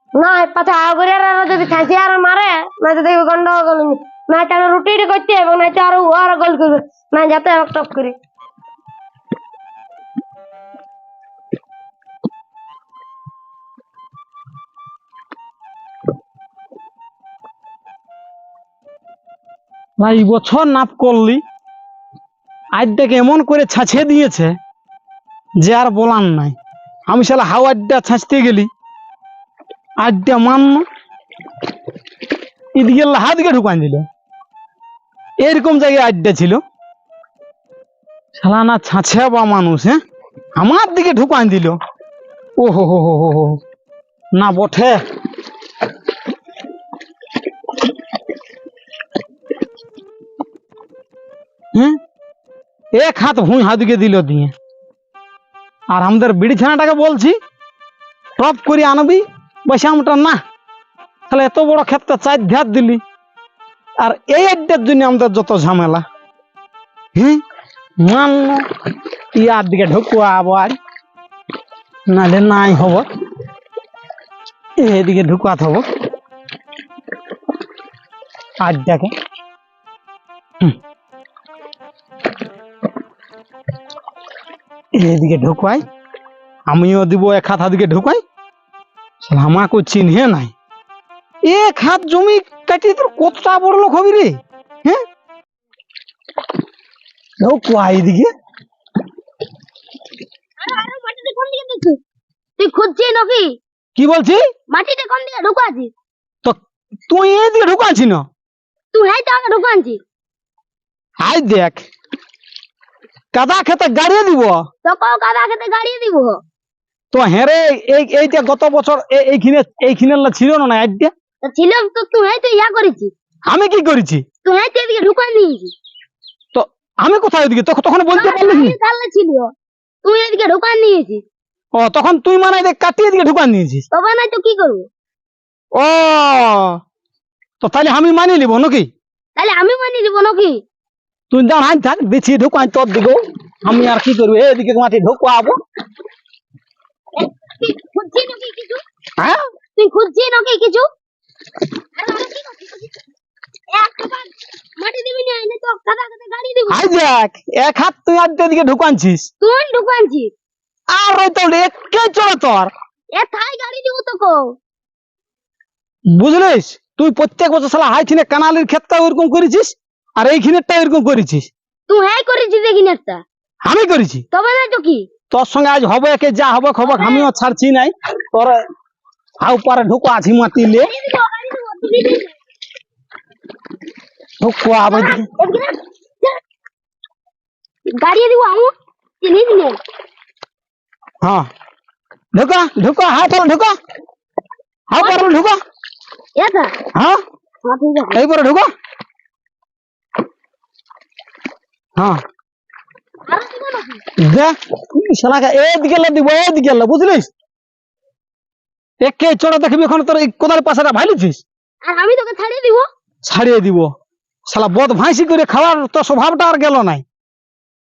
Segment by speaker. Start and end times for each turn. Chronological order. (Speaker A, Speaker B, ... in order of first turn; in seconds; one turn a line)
Speaker A: 0.1-8.2
Speaker B: 20.0-21.4
Speaker B: 22.8-24.6
Speaker B: 25.6-26.6
Speaker B: 27.1-28.7
Speaker B: 30.0-30.9
Speaker B: 32.8-34.1
Speaker B: 35.4-36.6
Speaker B: 38.4-40.0
Speaker B: 40.6-41.8
Speaker B: 42.6-43.6
Speaker B: 44.4-45.0
Speaker B: 52.9-54.5
Speaker B: 55.9-57.4
Speaker B: 58.4-60.4
Speaker B: 61.3-63.0
Speaker B: 64.0-66.0
Speaker B: 67.2-67.4
Speaker B: 68.0-68.7
Speaker B: 69.3-70.8
Speaker B: 72.1-73.1
Speaker B: 74.8-75.8
Speaker B: 78.6-79.1
Speaker B: 85.0-85.8
Speaker B: 86.7-88.2
Speaker B: 89.2-90.5
Speaker B: 91.4-95.0
Speaker B: 97.4-98.3
Speaker C: 100.6-102.0
Speaker C: 102.6-103.5
Speaker B: 104.0-104.4
Speaker C: 104.7-105.9
Speaker B: 106.5-108.2
Speaker C: 108.9-110.0
Speaker B: 111.2-111.8
Speaker B: 113.3-114.6
Speaker C: 114.8-116.4
Speaker B: 117.1-121.1
Speaker C: 121.4-123.1
Speaker B: 123.5-124.2
Speaker C: 124.5-125.7
Speaker B: 126.5-128.8
Speaker C: 128.2-129.5
Speaker C: 130.0-131.2
Speaker B: 131.8-133.8
Speaker C: 133.9-134.9
Speaker B: 135.8-136.8
Speaker B: 137.6-138.9
Speaker C: 139.4-140.6
Speaker B: 141.3-145.6
Speaker C: 147.2-148.8
Speaker C: 149.8-150.9
Speaker C: 152.0-152.9
Speaker C: 153.7-156.9
Speaker B: 156.7-159.3
Speaker C: 159.4-160.3
Speaker B: 160.9-162.7
Speaker C: 163.1-164.6
Speaker B: 166.1-171.5
Speaker C: 171.9-173.2
Speaker B: 173.6-174.2
Speaker C: 174.3-175.1
Speaker B: 175.3-178.6
Speaker C: 176.8-177.3
Speaker B: 179.4-180.9
Speaker C: 180.7-182.3
Speaker B: 184.4-185.2
Speaker C: 184.9-186.4
Speaker C: 188.0-189.8
Speaker B: 191.2-191.5
Speaker B: 192.3-193.8
Speaker B: 194.9-195.6
Speaker C: 195.0-195.4
Speaker C: 196.4-196.8
Speaker C: 197.7-198.2
Speaker B: 198.1-198.7
Speaker C: 203.3-204.0
Speaker B: 204.2-207.3
Speaker B: 209.0-211.4
Speaker C: 211.8-212.9
Speaker B: 213.2-213.9
Speaker B: 214.5-217.0